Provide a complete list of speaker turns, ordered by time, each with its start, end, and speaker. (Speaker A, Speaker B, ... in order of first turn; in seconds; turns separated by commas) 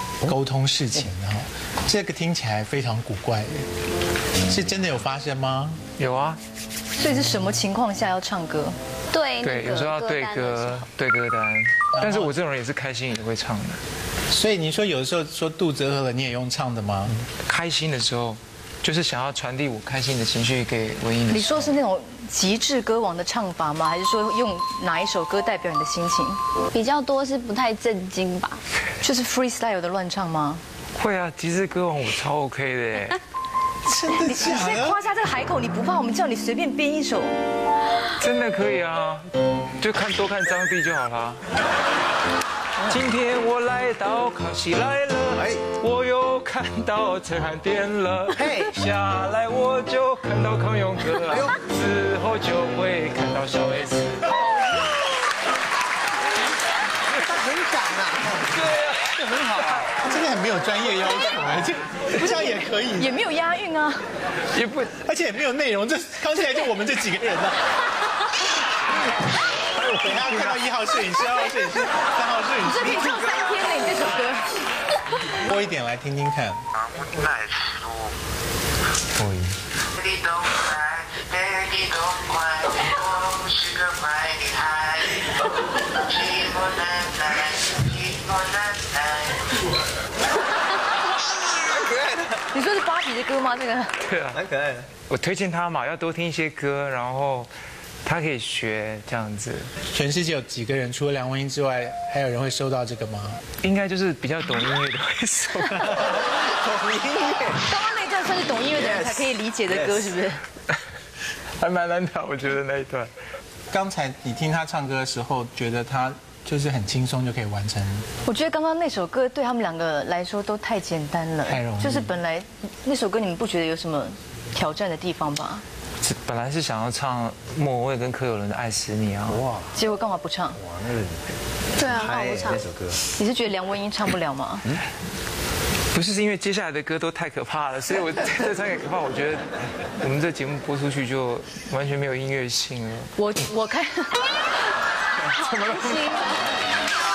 Speaker A: 0.2-3.7, Speaker A: 4.4-5.8, Speaker B: 6.0-6.4, Speaker C: 6.9-8.8, Speaker D: 9.1-10.8, Speaker B: 9.4-13.8, Speaker A: 11.9-12.3, Speaker A: 14.3-17.1, Speaker B: 17.4-21.7, Speaker C: 21.3-26.4, Speaker D: 26.7-28.6, Speaker C: 29.0-30.6, Speaker B: 30.9-33.2, Speaker A: 33.8-35.0, Speaker C: 34.2-37.4, Speaker B: 38.2-41.4, Speaker B: 42.8-54.4, Speaker E: 45.3-45.6, Speaker E: 48.4-48.7, Speaker E: 51.3-51.5, Speaker E: 57.2-58.5, Speaker B: 58.3-59.9, Speaker A: 59.7-63.1, Speaker C: 62.1-64.0, Speaker B: 64.5-64.9, Speaker A: 64.9-67.7, Speaker A: 69.8-73.4, Speaker B: 70.2-70.6, Speaker C: 72.6-74.6, Speaker A: 75.3-76.6, Speaker F: 76.8-78.1, Speaker B: 79.1-79.5, Speaker F: 80.0-85.2, Speaker F: 85.9-89.4, Speaker E: 91.7-92.3, Speaker C: 92.5-93.9, Speaker B: 94.0-94.4, Speaker E: 94.3-94.9, Speaker B: 95.0-97.5, Speaker B: 98.0-99.7, Speaker A: 99.9-103.4, Speaker B: 103.6-106.1, Speaker E: 105.8-107.6, Speaker C: 107.6-110.4, Speaker E: 108.7-110.0, Speaker B: 111.6-113.1, Speaker A: 113.7-118.0, Speaker C: 118.2-125.6, Speaker A: 121.4-122.1, Speaker B: 126.0-129.5, Speaker E: 129.3-129.7, Speaker C: 129.7-130.6, Speaker E: 130.7-131.2, Speaker D: 131.8-132.6, Speaker E: 131.8-133.0, Speaker C: 133.1-134.6, Speaker B: 135.9-139.5, Speaker B: 140.0-143.1, Speaker C: 143.2-144.5, Speaker B: 145.3-146.3, Speaker C: 145.3-146.3